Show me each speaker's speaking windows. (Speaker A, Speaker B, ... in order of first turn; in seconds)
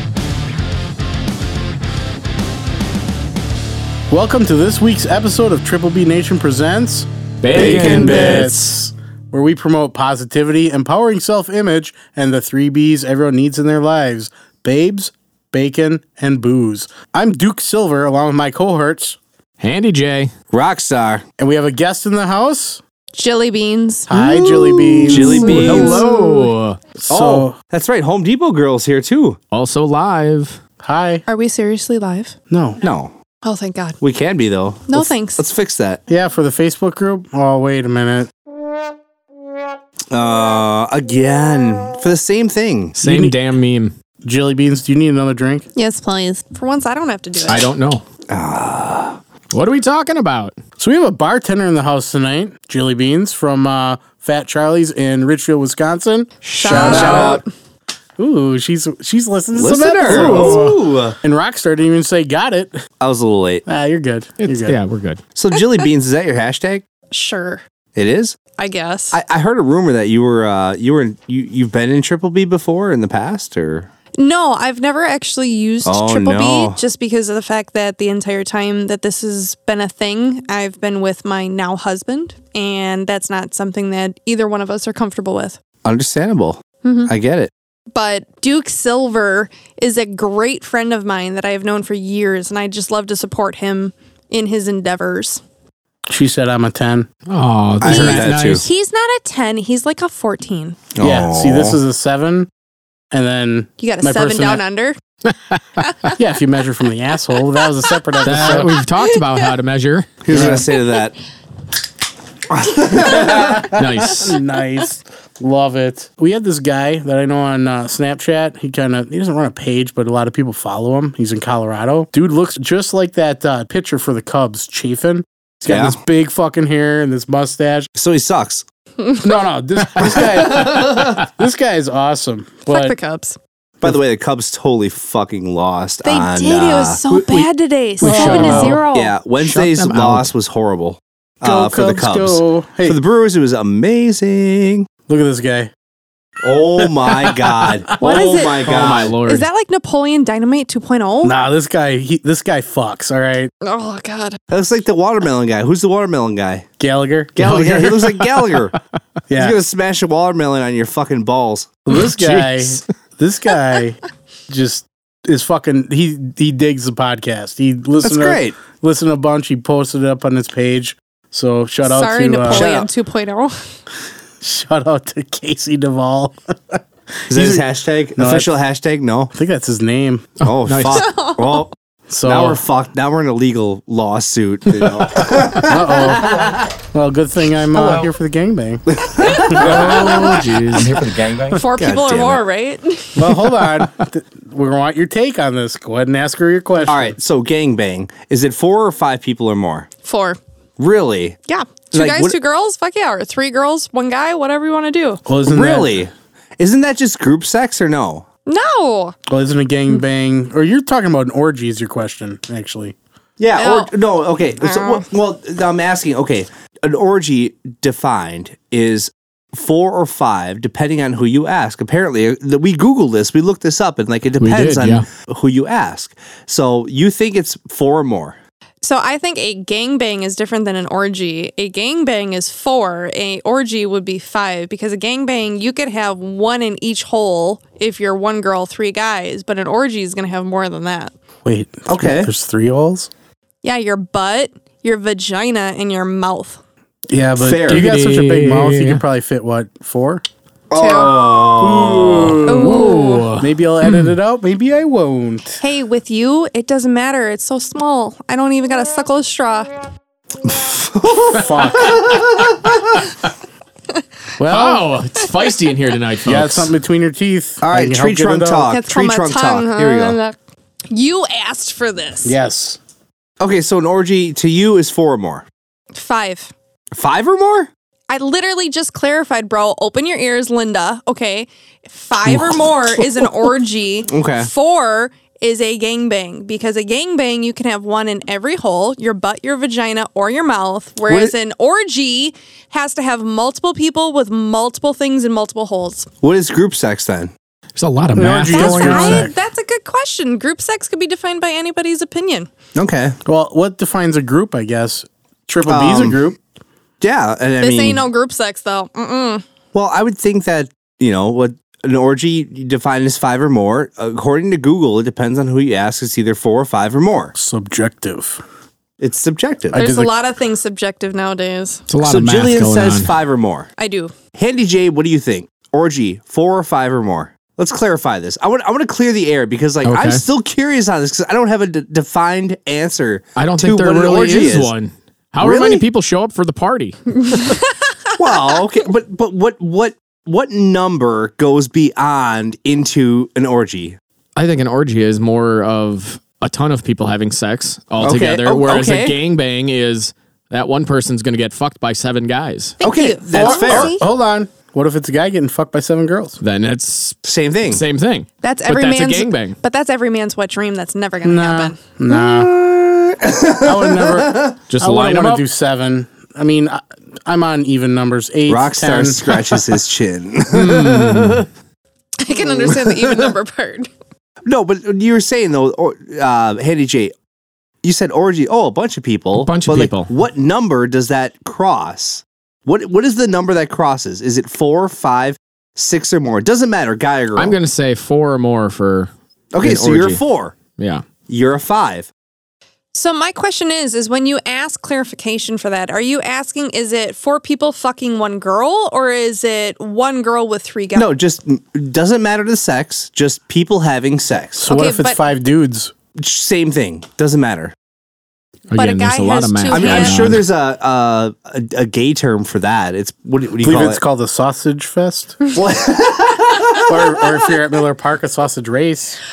Speaker A: 4.1-19.2, 21.4-22.8, 24.1-27.6, 30.8-31.2, 32.5-32.8, 36.1-38.3, 43.0-43.4, 44.2-45.7, 50.8-57.4, 58.2-62.8, 63.6-64.8, 96.1-97.1, 101.0-102.5, 103.1-104.6, 106.1-108.7, 110.3-110.7, 112.9-127.9, 129.2-132.9, 138.0-138.8, 141.4-143.0, 145.1-145.7, 151.2-153.5, 156.8-157.9, 159.3-159.6, 161.8-172.7, 174.4-178.5, 179.3-180.3, 182.1-182.6, 185.6-190.3, 191.7-192.0, 193.1-197.1, 205.2-206.0, 209.3-212.9, 241.4-243.1, 247.1-250.2, 251.6-255.6, 261.4-262.1, 264.4-264.9, 266.2-268.7, 272.2-272.8, 298.1-299.3, 303.2-306.4, 317.4-318.4, 319.7-320.1, 353.3-356.4, 361.2-362.6, 363.4-369.7, 404.6-405.9, 413.6-415.5, 416.8-419.2
Speaker B: 7.4-8.6, 19.6-20.3, 25.1-26.8, 29.5-30.6, 42.9-43.9, 47.5-48.0, 49.5-50.6, 56.6-57.4, 60.0-60.8, 64.4-65.2, 97.3-98.7, 108.2-110.5, 113.1-114.4, 138.0-138.8, 139.4-140.3, 148.6-149.4, 157.4-158.8, 161.9-162.8, 180.4-181.3, 189.4-191.0, 224.4-225.1, 247.7-249.0, 252.6-254.1, 264.5-266.7, 297.8-299.3, 321.9-323.1, 329.8-330.2, 333.4-337.6, 344.4-352.8, 356.4-359.6, 364.7-365.4, 370.5-371.5, 379.4-380.1, 387.4-390.2, 390.8-391.0, 408.7-410.4
Speaker C: 7.5-8.5, 20.5-21.2, 24.1-26.0, 27.1-29.4, 32.8-33.1, 34.0-36.0, 40.1-43.0, 48.3-49.2, 56.7-57.4, 59.5-61.1, 63.0-63.6, 65.3-66.8, 67.9-68.4, 69.1-73.9, 75.8-76.8, 85.8-87.5, 97.8-98.7, 100.9-101.8, 110.2-111.1, 112.5-113.7, 125.7-126.0, 128.0-128.6, 130.0-131.2, 133.8-137.4, 138.4-144.9, 146.4-149.1, 154.5-156.7, 157.3-158.7, 159.3-161.8, 168.0-168.6, 172.5-172.9, 177.3-179.3, 180.4-181.7, 182.2-186.7, 187.8-188.0, 188.9-192.4, 196.9-199.9, 200.8-201.4, 201.9-202.4, 205.4-208.2, 213.4-228.3, 241.9-242.3, 247.4-247.8, 250.7-252.7, 260.4-263.1, 267.6-270.2, 273.4-275.4, 276.9-277.7, 282.3-283.0, 284.1-284.5, 291.1-291.3, 296.2-297.3, 302.7-303.2, 305.6-306.2, 307.0-308.0, 309.7-317.3, 319.0-319.8, 322.0-323.7, 324.3-334.7, 335.4-335.8, 338.2-344.0, 348.0-349.2, 352.8-353.9, 357.2-357.8, 362.1-364.6, 368.5-371.4, 372.4-373.3, 374.4-377.1, 377.8-387.5, 389.5-390.6, 391.3-392.1, 400.9-404.7, 406.1-407.7, 409.7-414.0, 415.5-417.2
Speaker D: 23.1-24.5, 25.4-26.1, 31.3-32.3, 33.4-34.0, 34.9-35.4, 45.7-47.7, 56.4-57.5, 67.1-67.6, 68.6-69.2, 74.2-85.6, 86.8-87.1, 87.9-95.4, 97.8-100.8, 103.8-105.0, 105.8-106.1, 132.7-133.4, 136.0-139.1, 148.0-151.4, 153.6-154.4, 171.8-173.7, 180.9-181.6, 191.5-193.4, 200.0-200.4, 201.5-205.2, 208.5-209.1, 213.6-213.9, 214.6-215.0, 228.8-241.1, 243.6-246.6, 250.7-251.2, 252.4-253.3, 255.6-259.8, 268.7-270.4, 270.9-272.4, 275.9-276.5, 278.1-296.1, 298.5-302.5, 307.6-309.4, 319.7-321.8, 323.8-324.1, 337.2-338.1, 352.8-354.0, 358.4-361.8, 372.2-373.9, 392.9-401.1, 404.7-405.2, 408.7-410.4